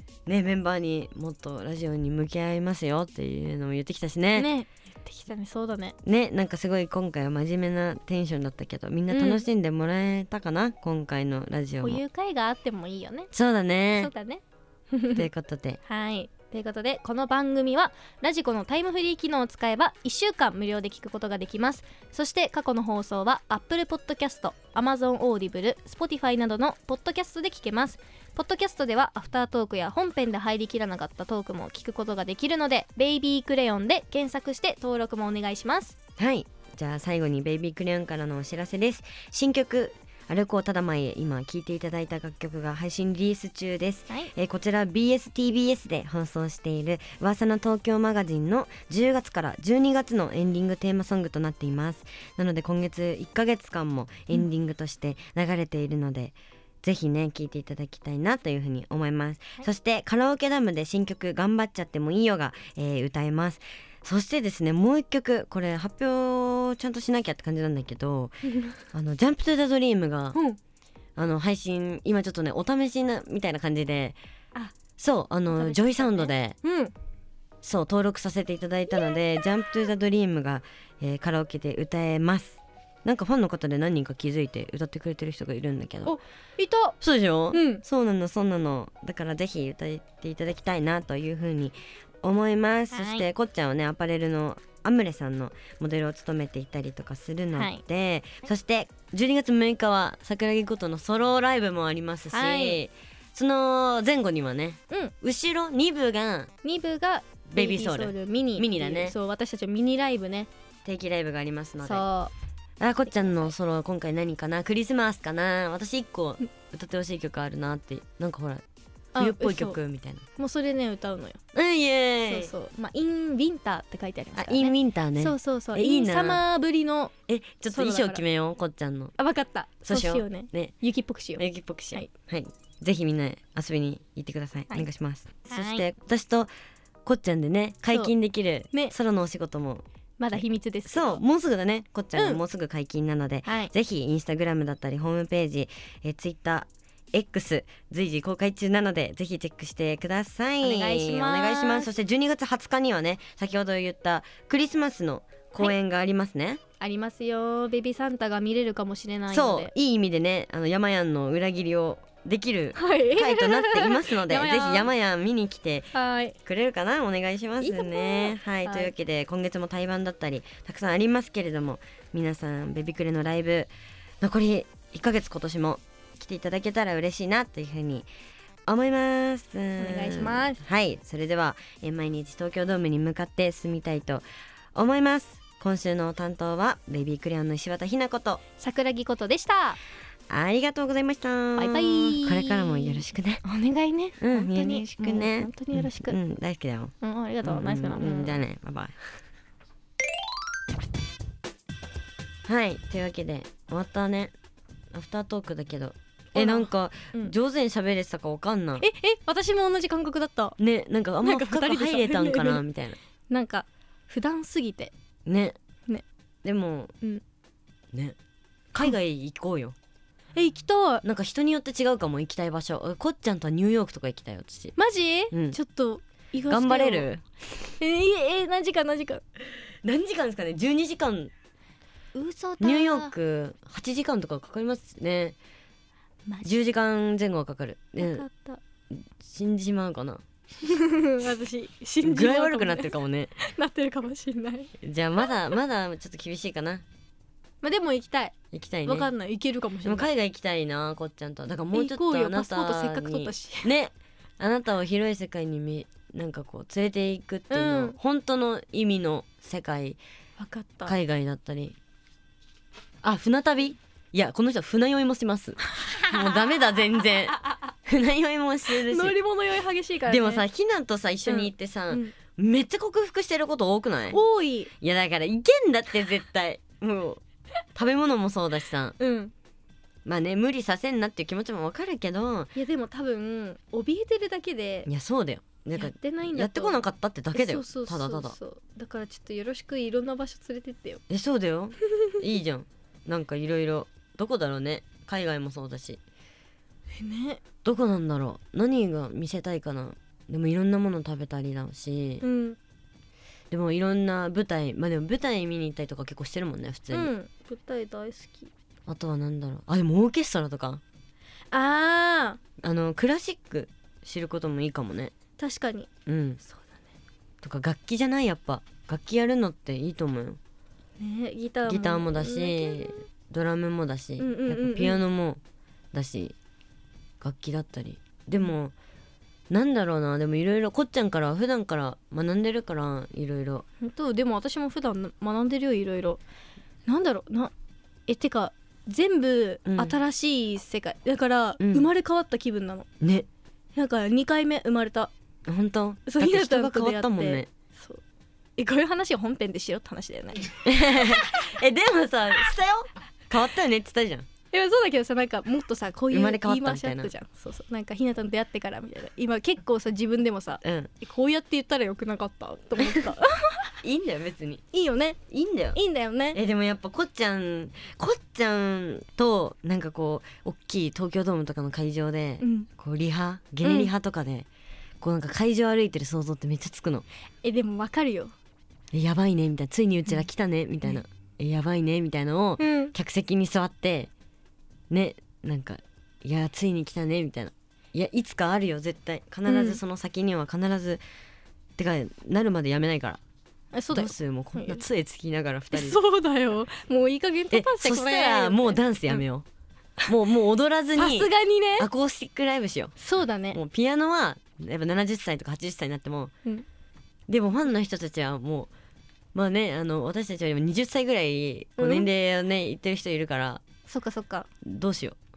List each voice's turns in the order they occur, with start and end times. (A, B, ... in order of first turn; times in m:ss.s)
0:00.3-0:04.5 A
0:04.4-0:06.0 B
0:06.0-0:12.0 A
0:09.1-0:09.4 B
0:11.8-0:13.3 B
0:13.3-0:14.1 A
0:13.9-0:15.3 B
0:15.2-0:15.8 A
0:15.8-0:36.0 B
0:36.2-1:10.4 A
1:08.5-1:08.8 B
1:11.2-1:14.2 A
1:15.0-1:16.6 A
1:15.5-1:16.9 B
1:17.6-1:26.2 A
1:26.0-1:27.0 B
1:27.0-1:46.5 A
1:27.5-1:27.8 B
1:32.9-1:33.3 B
1:37.5-1:37.8 B
1:42.3-1:42.8 B
1:46.6-1:50.5 B
1:47.5-1:49.2 A
1:50.8-1:52.0 A
1:51.8-1:52.3 B
1:52.8-1:58.6 A
1:59.2-1:59.8 B
1:59.2-2:00.2 A
2:00.4-2:01.4 B
2:01.5-2:02.5 A
2:02.3-2:07.1 B
2:04.4-2:06.4 A
2:07.3-2:09.2 A
2:07.7-2:08.2 B
2:09.2-2:12.1 B
2:09.9-2:10.7 A
2:11.4-2:16.5 A
2:15.5-2:15.8 B
2:17.0-2:36.6 A
2:20.2-2:21.2 B
2:22.2-2:22.4 B
2:23.4-2:23.7 B
2:30.6-2:31.9 B
2:36.8-2:39.7 B
2:39.3-2:45.9 A
2:42.8-2:44.9 B
2:45.9-2:46.4 B
2:46.4-2:53.7 A
2:47.6-2:48.9 B
2:54.2-2:58.1 A
2:58.7-3:04.2 A
2:59.8-3:00.6 B
3:04.8-3:08.4 A
3:08.6-3:09.8 B
3:10.3-3:13.4 A
3:11.6-3:16.2 B
3:14.2-3:19.0 A
3:17.0-3:18.4 B
3:22.5-3:24.3 A
3:24.9-3:28.9 A
3:26.4-3:27.4 B
3:28.8-3:30.6 B
3:30.6-3:33.0 A
3:31.2-3:32.6 B
3:33.3-3:34.9 B
3:35.3-3:35.6 A
3:36.4-3:36.9 A
3:38.7-3:39.8 A
3:40.4-3:41.0 B
3:41.0-3:44.8 A
3:44.8-3:47.1 B
3:45.3-3:45.6 A
3:46.5-3:47.2 A
3:47.8-3:49.2 B
3:49.8-3:51.3 A
3:52.2-3:53.1 B
3:52.6-3:55.4 A
3:56.4-3:58.3 A
3:58.0-3:58.6 B
3:58.9-4:00.2 A
4:00.6-4:04.7 B
4:02.0-4:03.3 A
4:04.8-4:06.8 A
4:07.6-4:10.1 B
4:08.5-4:09.1 A
4:09.8-4:20.0 A
4:11.7-4:13.7 B
4:17.5-4:18.0 B
4:20.4-4:21.0 B
4:20.9-4:21.8 A
4:23.0-4:29.2 A
4:25.7-4:26.6 B
4:27.4-4:27.6 B
4:28.7-4:30.4 B
4:30.1-4:34.2 A
4:31.3-4:32.1 B
4:34.1-4:34.7 B
4:34.8-4:37.2 A
4:37.8-4:39.0 A
4:39.0-4:39.3 B
4:40.0-4:42.5 A
4:42.6-4:44.9 B
4:44.9-4:48.4 A
4:45.8-4:46.8 B
4:47.3-4:51.0 B
4:51.1-4:56.0 A
4:57.0-4:57.4 B
4:57.6-5:02.2 A
5:02.2-5:02.6 B
5:03.5-5:07.1 A
5:06.9-5:08.5 B
5:08.9-5:10.8 A
5:11.5-5:12.4 B
5:12.6-5:15.1 A
5:15.4-5:15.9 B
5:16.1-5:16.4 A
5:16.4-5:16.8 B
5:17.4-5:20.4 A
5:21.0-5:23.1 B
5:21.6-5:25.4 A
5:24.2-5:25.0 B
5:25.9-5:26.4 A
5:27.2-5:28.7 A
5:29.5-5:33.7 A
5:33.8-5:36.2 B
5:36.9-5:37.5 B
5:38.1-5:42.9 B
5:39.7-5:40.0 A
5:41.6-5:41.9 A
5:43.0-5:43.3 A
5:43.8-5:45.1 B
5:45.5-5:47.5 A
5:46.1-5:48.0 B
5:48.6-5:51.4 B
5:50.6-5:54.3 A
5:54.5-6:03.8 B
5:56.1-5:57.1 A
6:00.6-6:00.9 A
6:02.8-6:03.1 A
6:03.8-6:04.6 A
6:04.7-6:05.2 B
6:05.3-6:05.8 A
6:05.8-6:06.4 B
6:06.3-6:14.5 A
6:12.4-6:12.7 B
6:13.6-6:13.9 B
6:15.0-6:17.0 A
6:17.4-6:18.3 B
6:18.9-6:24.1 A
6:22.6-6:23.0 B
6:24.9-6:31.0 A
6:29.5-6:29.8 B
6:31.8-6:33.2 A
6:33.7-6:34.8 B
6:33.9-6:36.0 A
6:35.7-6:39.2 B
6:37.5-6:39.5 A
6:40.1-6:42.9 A
6:41.0-6:41.9 B
6:43.0-6:43.6 B
6:43.5-6:46.3 A
6:47.3-6:48.7 A
6:49.3-6:53.6 A
6:51.8-6:52.1 B
6:53.9-6:54.5 B
6:54.6-6:55.2 A